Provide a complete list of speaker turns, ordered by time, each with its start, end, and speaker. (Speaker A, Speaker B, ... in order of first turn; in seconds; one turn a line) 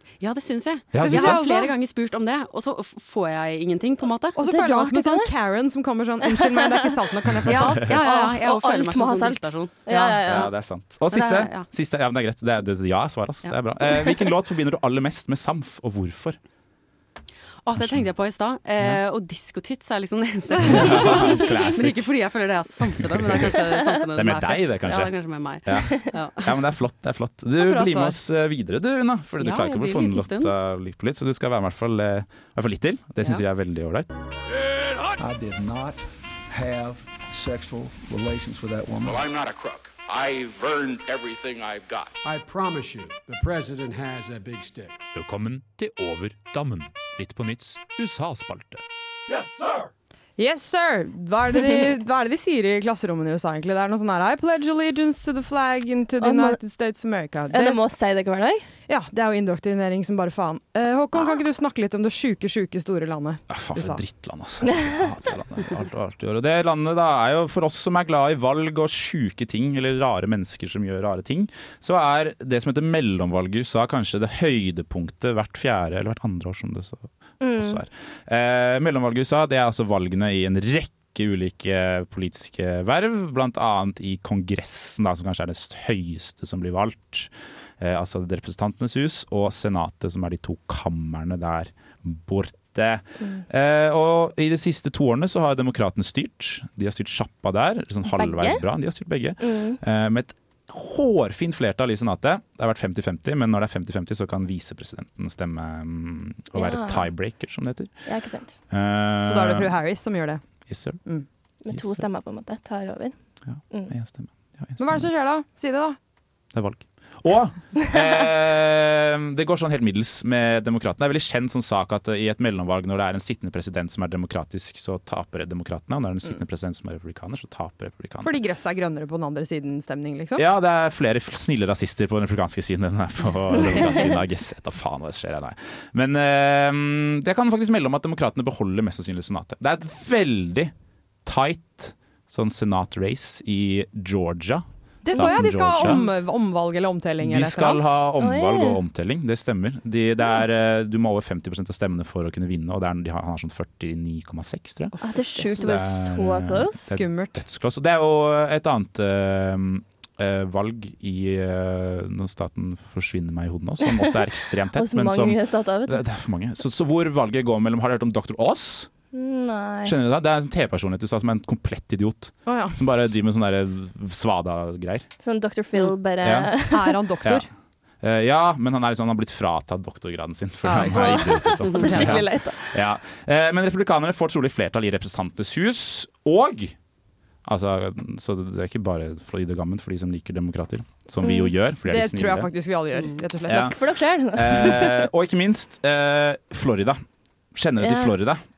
Speaker A: 0.2-4.4
Speaker B: 0.9-1.4
Speaker C: 1.0-1.7
Speaker C: 4.3-8.0
Speaker D: 4.4-5.3
Speaker D: 6.4-6.8
Speaker A: 7.5-10.5
Speaker D: 7.8-10.5
Speaker B: 10.2-16.4
Speaker A: 11.1-11.7
Speaker A: 17.6-26.5
Speaker B: 17.7-18.1
Speaker B: 20.6-22.1
Speaker B: 22.9-34.1
Speaker C: 27.6-28.1
Speaker A: 29.4-30.5
Speaker E: 34.5-35.2
Speaker F: 35.2-39.2
Speaker E: 39.0-42.1
Speaker G: 42.2-45.0
Speaker B: 45.1-48.8
Speaker F: 49.3-49.8
Speaker C: 50.4-57.8
Speaker D: 56.2-56.6
Speaker D: 57.5-58.6
Speaker C: 58.9-64.0
Speaker B: 63.5-107.9
Speaker D: 77.4-77.8
Speaker D: 98.0-98.6
Speaker D: 99.4-99.8
Speaker D: 106.5-107.1
Speaker D: 108.0-108.5
Speaker B: 108.7-109.7
Speaker C: 109.2-110.4
Speaker B: 110.7-111.0
Speaker D: 111.6-113.1
Speaker B: 111.7-112.0
Speaker B: 113.5-115.1
Speaker C: 114.8-116.0
Speaker B: 116.5-128.4
Speaker C: 128.2-130.4
Speaker B: 130.4-140.7
Speaker B: 141.2-146.0
Speaker C: 145.0-147.9
Speaker B: 147.2-154.9
Speaker D: 148.2-148.8
Speaker C: 155.0-155.6
Speaker D: 155.0-156.9
Speaker B: 155.6-168.9
Speaker C: 156.9-157.4
Speaker D: 163.8-164.2
Speaker D: 164.7-166.0
Speaker D: 169.1-169.9
Speaker B: 169.8-175.1
Speaker C: 172.5-172.8
Speaker D: 175.2-176.9
Speaker B: 176.2-176.5
Speaker C: 176.7-177.5
Speaker B: 177.2-177.5
Speaker B: 178.0-186.8
Speaker C: 180.7-181.2
Speaker D: 180.9-182.7
Speaker A: 181.6-182.1
Speaker C: 181.8-182.2
Speaker B: 187.4-192.5
Speaker D: 191.2-191.5
Speaker C: 191.8-193.7
Speaker A: 192.9-193.2
Speaker D: 193.4-195.1
Speaker B: 193.4-193.8
Speaker B: 194.3-197.0
Speaker B: 197.5-198.4
Speaker D: 197.8-198.1